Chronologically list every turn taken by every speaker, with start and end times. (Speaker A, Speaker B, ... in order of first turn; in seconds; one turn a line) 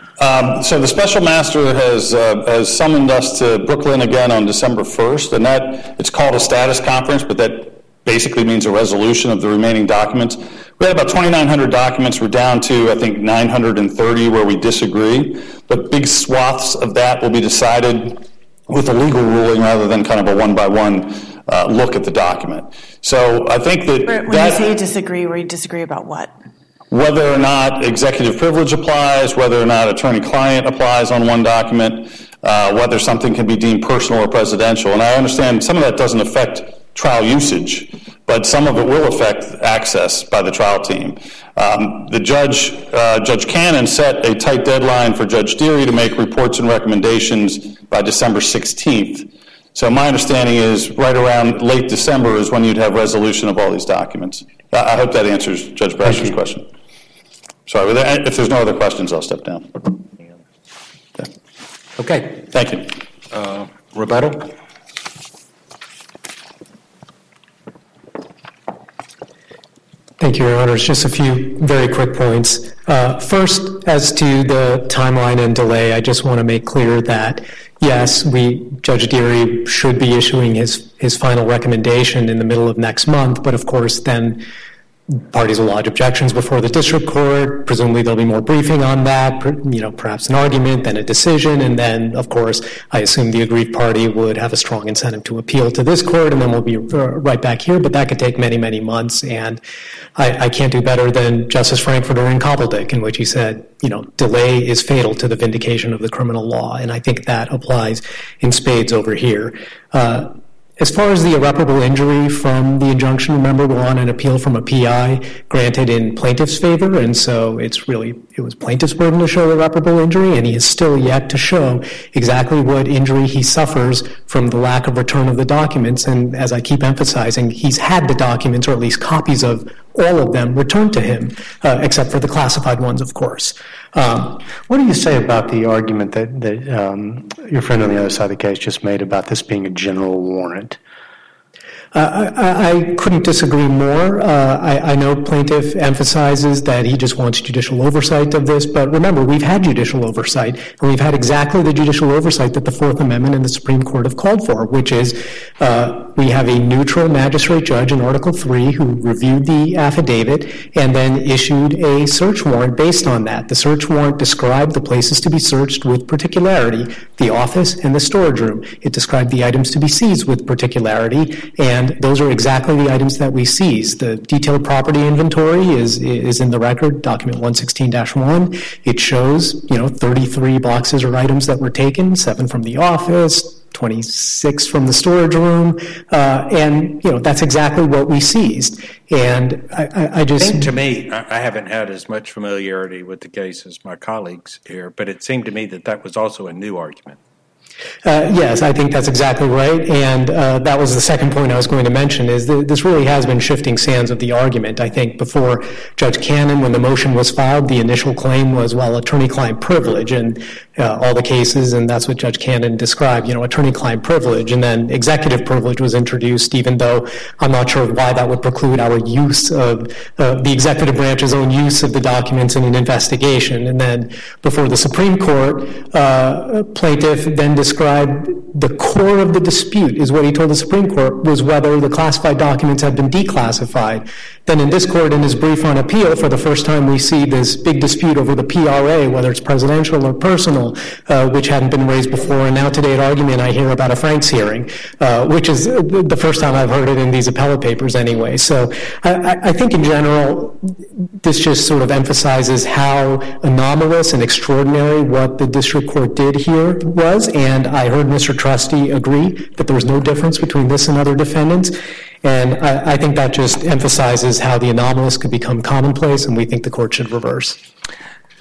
Speaker A: 0.2-24.6
Speaker B: 24.0-26.3
Speaker A: 26.9-56.7
Speaker A: 57.6-60.0
Speaker C: 62.0-62.5
Speaker A: 62.5-62.9
Speaker C: 63.3-64.5
Speaker D: 70.2-84.4
Speaker D: 85.1-99.6
Speaker D: 100.2-134.4
Speaker E: 134.7-140.8
Speaker D: 141.9-190.7
Speaker C: 190.4-197.2
Speaker D: 198.0-267.6